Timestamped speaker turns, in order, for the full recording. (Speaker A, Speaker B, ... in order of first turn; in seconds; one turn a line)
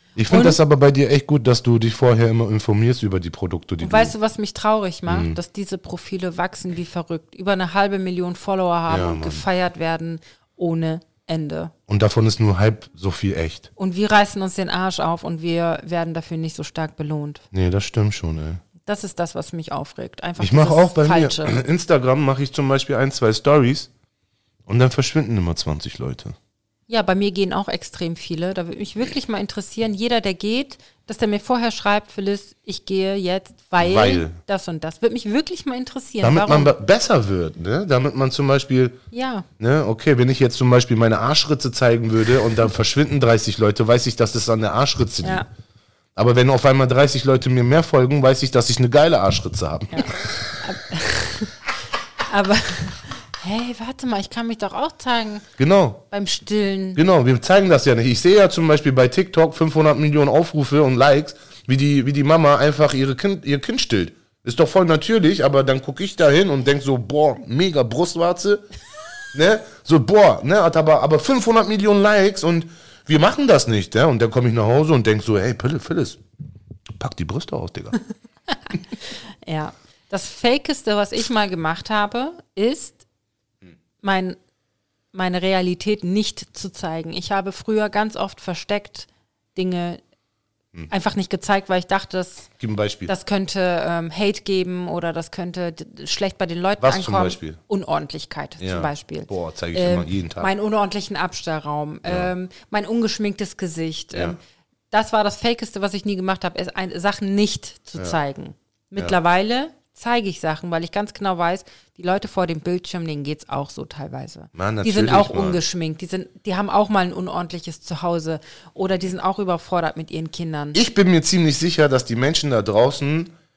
Speaker A: 0.2-4.1
Speaker B: 0.3-0.6
Speaker B: 3.8-11.7
Speaker A: 5.1-5.4
Speaker A: 8.9-9.4
Speaker A: 11.9-13.7
Speaker B: 13.8-17.4
Speaker A: 17.5-18.6
Speaker B: 18.8-21.6
Speaker A: 20.4-23.9
Speaker A: 24.7-26.3
Speaker B: 26.9-36.7
Speaker A: 33.8-34.4
Speaker A: 36.2-39.0
Speaker B: 39.1-39.5
Speaker A: 39.6-45.4
Speaker A: 46.1-50.6
Speaker B: 49.9-51.5
Speaker B: 52.2-55.5
Speaker A: 55.6-56.0
Speaker B: 56.1-57.0
Speaker A: 57.0-68.6
Speaker A: 69.3-76.2
Speaker A: 77.0-78.0
Speaker B: 78.5-83.0
Speaker B: 84.0-84.4
Speaker B: 85.1-90.0
Speaker B: 90.9-92.5
Speaker A: 92.6-93.1
Speaker B: 93.1-104.4
Speaker A: 96.8-97.6
Speaker A: 98.6-100.5
Speaker A: 102.0-102.3
Speaker A: 104.1-104.4
Speaker B: 104.9-120.8
Speaker A: 114.5-115.6
Speaker A: 120.7-123.3